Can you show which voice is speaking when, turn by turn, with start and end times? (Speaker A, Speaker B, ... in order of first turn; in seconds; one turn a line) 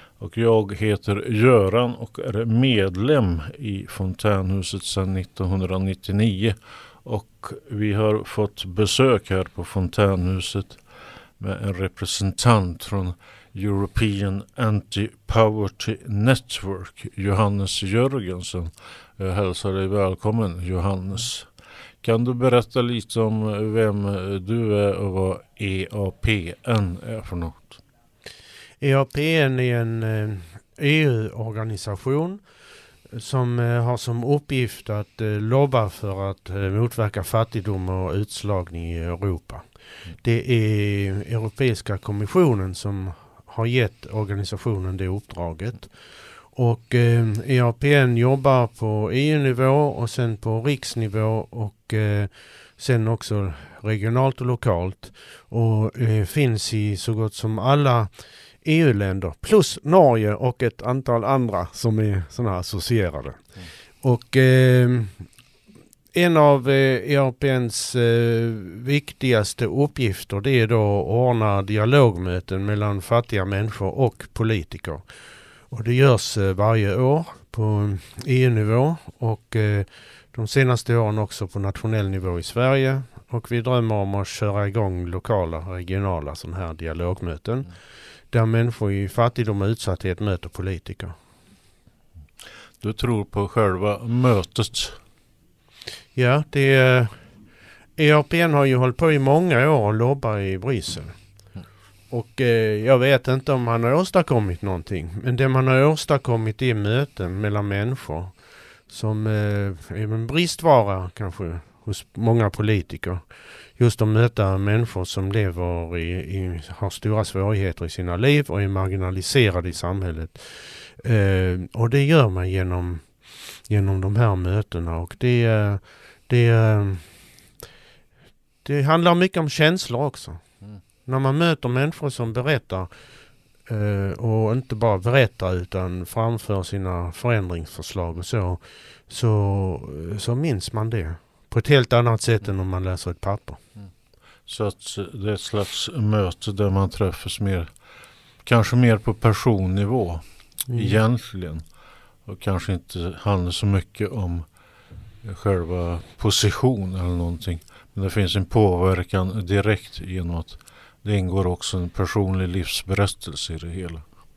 Speaker A: 0.2-21.5
Speaker A: 22.0-27.8
Speaker B: 28.8-32.4
Speaker B: 33.1-65.3
Speaker B: 66.1-75.0
Speaker B: 75.7-87.8
Speaker B: 88.3-91.2
Speaker A: 92.8-95.0
Speaker B: 96.2-97.3
Speaker B: 98.0-101.2
Speaker B: 102.1-127.4
Speaker B: 128.6-130.5
Speaker B: 131.0-132.9
Speaker B: 133.7-143.6
Speaker A: 144.5-147.7
Speaker A: 148.4-151.7
Speaker B: 150.7-151.0
Speaker A: 152.2-154.5
Speaker A: 155.2-164.1